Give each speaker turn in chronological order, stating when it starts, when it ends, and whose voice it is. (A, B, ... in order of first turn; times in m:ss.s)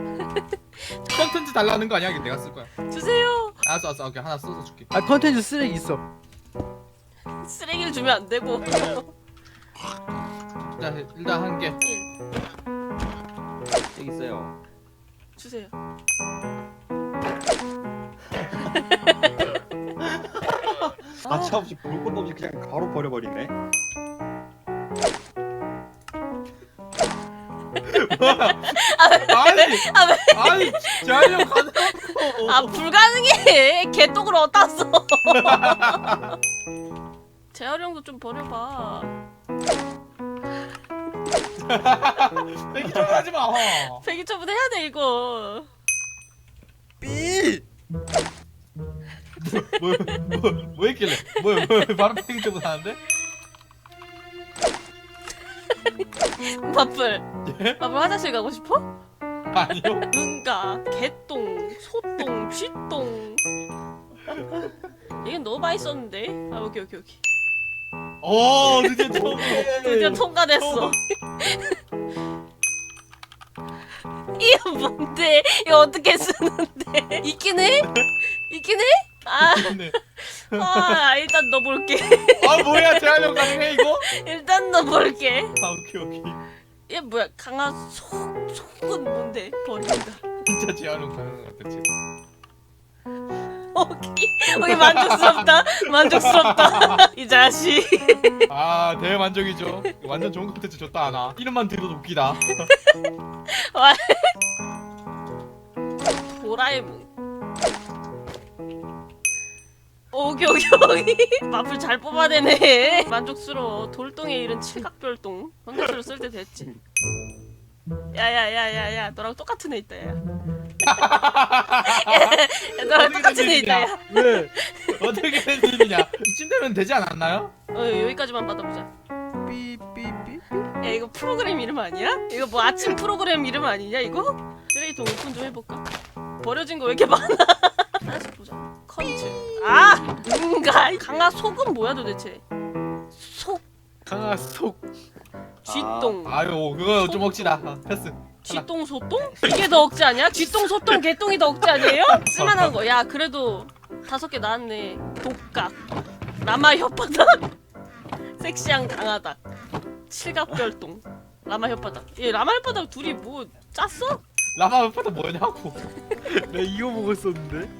0:00.2-0:01.1 A
0:01.1-0:02.7 B
0:02.8-0:03.6 A
0:03.6-0:04.9 B
0:04.9-0:06.0 C
0:07.4-0:09.1 A
0:10.6-0:11.8 B
0:11.8-0:12.1 A
0:13.9-0:14.6 D
0:15.4-0:15.7 A
0:18.5-0:19.6 A
0:21.2-0:21.6 A
0:21.3-0:23.5 D
0:27.8-0:32.8 B
0:28.2-0:36.3 A
0:35.3-0:36.4 B
0:37.5-0:39.1 A
0:41.6-0:44.0 B
0:43.6-0:45.7 A
0:47.0-0:47.6 C
0:49.4-0:53.0 B
0:49.8-0:50.1 A
0:51.2-0:51.8 A
0:55.7-0:58.9 A
0:57.4-0:57.8 B
0:59.5-1:00.1 B
0:59.9-1:03.4 A
1:05.2-1:07.2 A
1:08.2-1:10.9 B
1:08.8-1:11.8 A
1:14.3-1:25.6 A
1:17.8-1:18.1 B
1:19.4-1:20.0 B
1:20.5-1:21.0 B
1:22.4-1:24.1 B
1:25.6-1:26.4 B
1:26.9-1:30.2 A
1:30.4-1:31.9 B
1:33.7-1:38.5 A
1:34.5-1:37.0 B
1:38.5-1:42.7 B
1:42.6-1:44.3 A
1:46.2-1:47.1 A
1:50.1-1:56.7 A
1:58.1-2:00.2 A
2:00.8-2:03.9 B
2:01.8-2:06.0 A
2:04.1-2:04.5 C
2:04.9-2:07.5 B
2:07.7-2:08.9 A
2:09.4-2:10.6 C
2:10.8-2:15.8 A
2:16.4-2:22.4 A
2:19.6-2:20.0 C
2:23.1-2:23.6 A
2:24.0-2:24.8 C
2:25.6-2:27.6 A
2:25.7-2:26.1 D
2:26.2-2:28.6 B
2:28.4-2:35.8 A
2:29.4-2:29.7 B
2:31.7-2:32.8 B
2:36.4-2:37.5 A
2:38.4-2:39.4 A
2:40.1-2:44.2 A
2:44.5-2:45.8 B
2:46.4-2:47.7 C